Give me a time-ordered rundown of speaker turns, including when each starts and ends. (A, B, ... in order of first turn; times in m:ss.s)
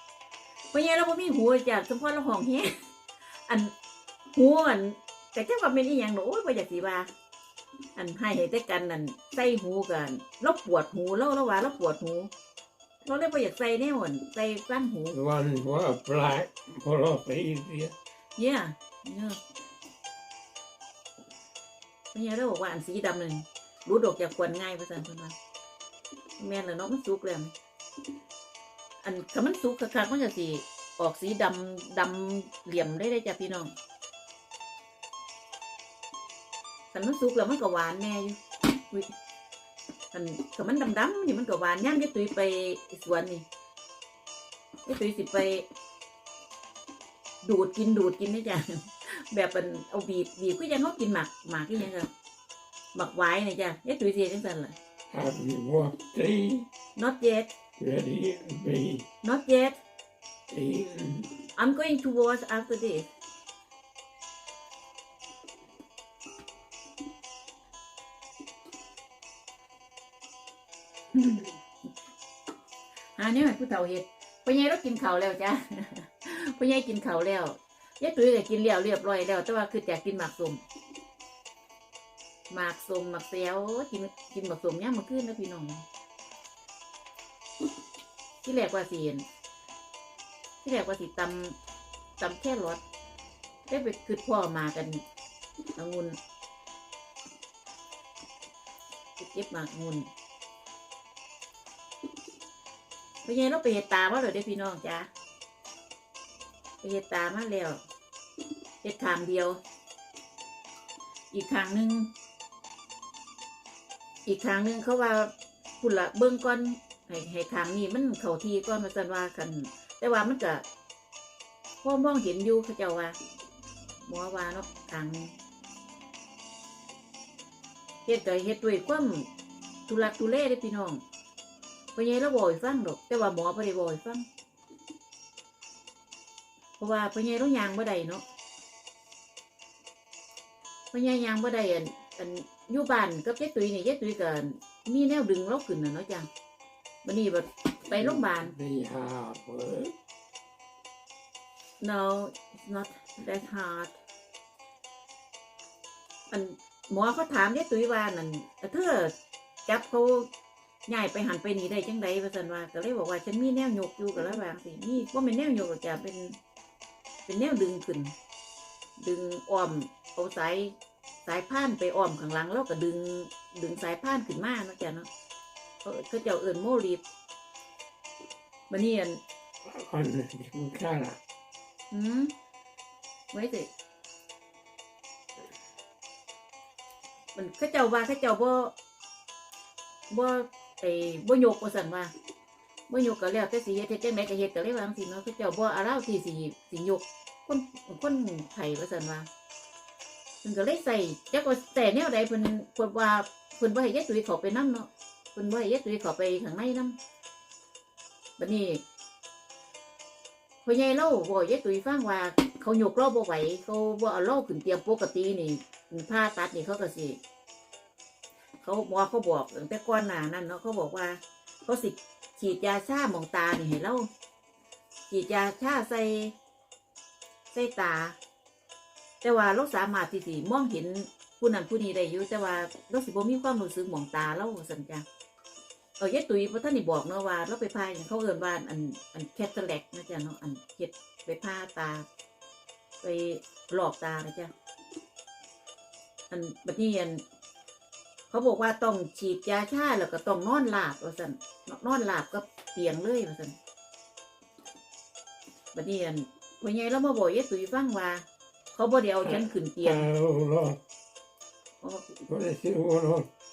0:00.7-0:03.7 A
0:04.4-0:07.1 A
0:08.0-0:12.3 A
0:13.0-0:15.2 A
0:15.1-0:18.0 B
0:18.4-0:19.4 A
0:22.1-0:25.4 A
0:26.4-0:27.5 A
0:29.0-0:33.7 A
0:36.9-0:39.1 A
0:40.1-0:43.4 A
0:44.9-0:45.7 A
0:47.4-0:52.1 A
0:52.9-0:54.8 A
0:55.1-0:56.7 B
0:57.0-0:57.5 A
0:57.8-0:59.1 B
0:59.2-0:59.8 A
1:00.5-1:01.4 B
1:01.6-1:03.1 A
1:11.1-1:11.5 A
1:13.2-1:20.6 A
1:22.5-1:25.8 A
1:28.4-1:29.3 A
1:30.6-1:31.6 A
1:32.2-1:32.8 A
1:33.7-1:35.0 A
1:35.8-1:36.2 A
1:39.2-1:40.1 A
1:43.2-1:45.1 A
1:46.8-1:47.8 A
1:48.8-1:49.6 A
1:51.3-1:52.1 A
1:54.3-2:00.6 A
2:01.8-2:03.2 A
2:04.1-2:05.3 A
2:08.1-2:09.3 A
2:09.9-2:11.0 A
2:12.0-2:14.3 A
2:16.8-2:18.2 A
2:20.9-2:26.3 A
2:27.0-2:28.5 A
2:27.9-2:29.9 B
2:31.8-2:34.0 A
2:36.3-2:39.1 A
2:39.7-2:40.3 A
2:40.9-2:46.4 A
2:47.3-2:48.1 A
2:49.0-2:55.1 A
2:55.8-2:57.0 A
2:58.7-2:59.2 A
2:59.6-3:01.2 B
3:01.9-3:02.3 A
3:03.3-3:03.7 A
3:07.4-3:08.7 A
3:10.1-3:12.1 A
3:12.9-3:19.3 A
3:20.4-3:27.0 A
3:28.4-3:28.8 A
3:30.6-3:37.2 A
3:38.6-3:44.1 A
3:45.1-3:46.4 A
3:47.5-3:48.2 A
3:49.2-3:55.0 A
3:56.0-4:02.1 A
4:03.0-4:04.5 A
4:06.3-4:07.2 A
4:08.3-4:13.6 A
4:15.7-4:20.1 A
4:19.2-4:20.8 B
4:21.8-4:22.2 A
4:22.3-4:23.3 B